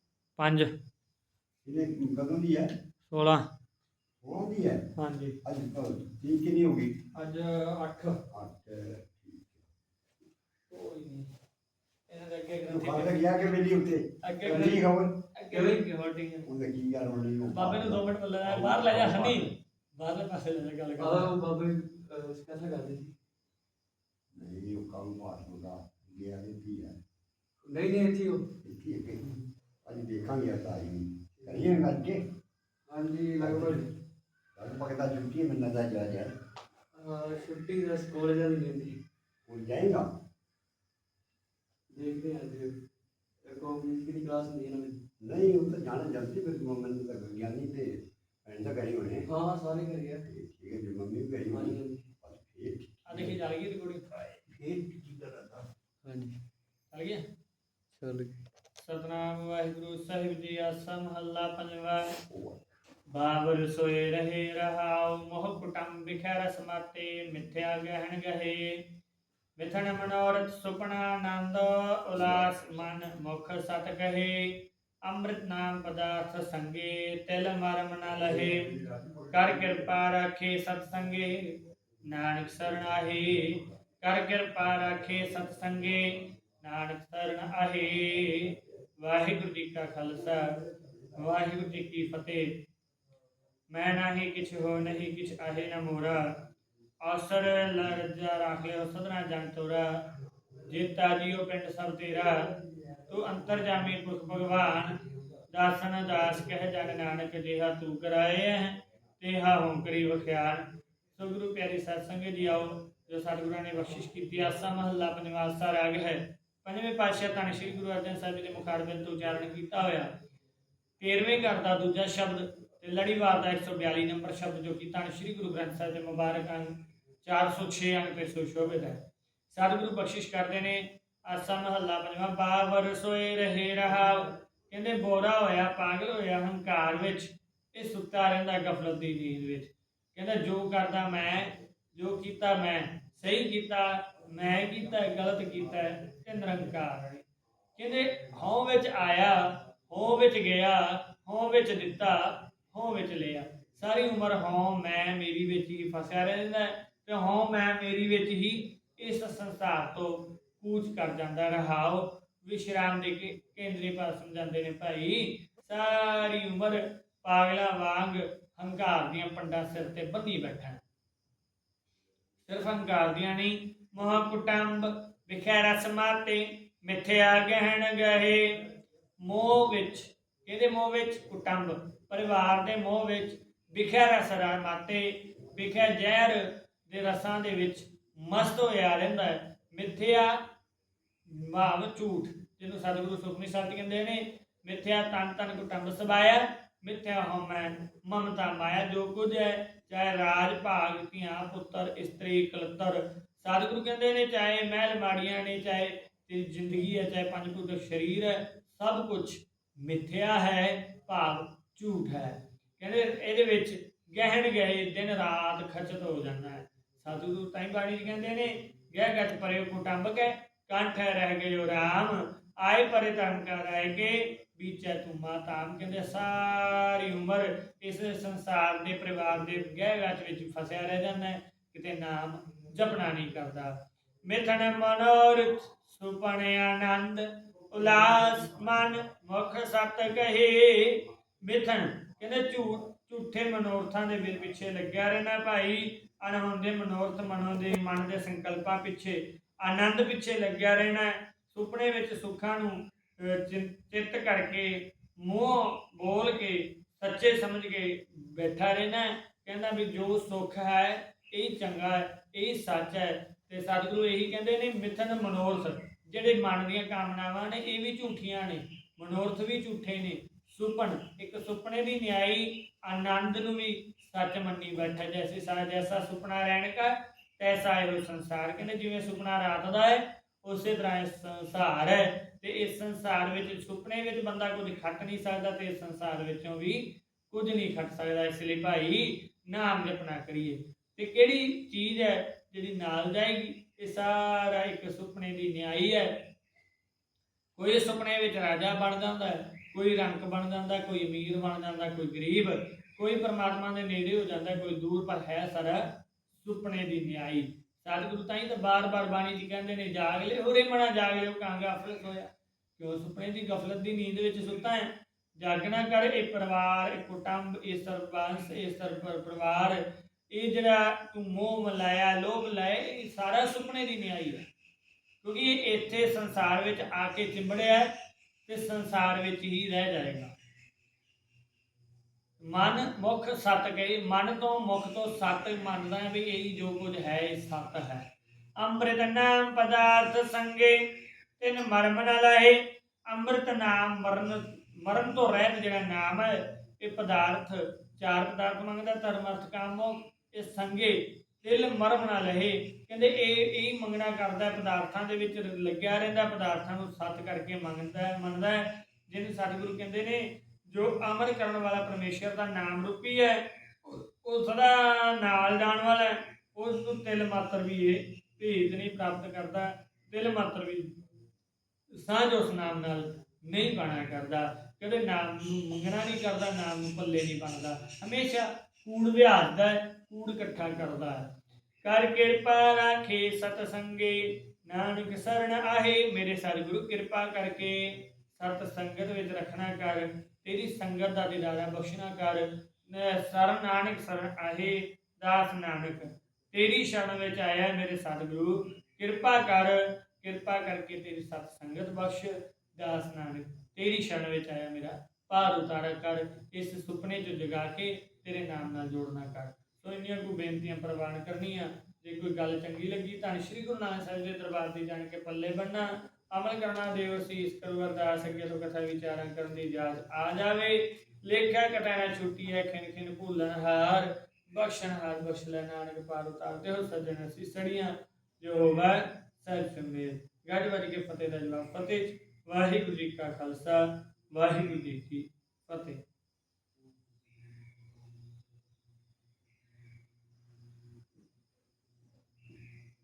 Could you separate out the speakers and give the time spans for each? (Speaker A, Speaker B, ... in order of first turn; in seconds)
Speaker A: 0.4-0.7, 3.1-3.4, 5.0-5.4, 7.2-8.2, 10.7-11.3, 12.1-13.3, 14.2-14.8, 15.3-16.5, 17.5-21.4, 53.1-54.1, 56.9-57.2, 58.8-62.1, 63.1-68.8, 69.6-78.7, 79.3-81.6, 82.1-90.6, 91.2-92.5, 93.7-96.2, 97.0-99.9, 100.7-102.5, 103.1-105.0, 105.5-110.6, 111.2-120.1, 121.0-147.2, 147.8-170.8, 172.5-178.5, 179.2-190.4, 191.3-233.8, 234.3-296.1, 297.6-324.5, 325.2-327.9, 328.5-330.3, 332.5-338.1, 338.6-340.8, 341.4-370.9, 372.0-381.3, 381.8-436.0
Speaker B: 1.6-2.7, 4.2-4.8, 5.4-7.0, 8.3-9.6, 12.7-15.2, 16.5-19.5, 24.4-27.0, 28.6-29.2, 29.9-32.2, 33.4-33.8, 34.6-36.3, 39.5-40.1, 45.2-49.3, 50.2-53.4, 54.2-55.6, 62.3-62.6, 72.2-72.5, 78.2-79.9
Speaker C: 14.4-14.8, 15.5-15.8, 21.0-23.1, 27.6-28.5, 31.4-31.7, 32.9-33.9, 37.0-39.0, 41.9-42.7, 43.5-45.0, 49.3-50.2, 51.5-52.0, 56.0-56.4, 58.0-58.4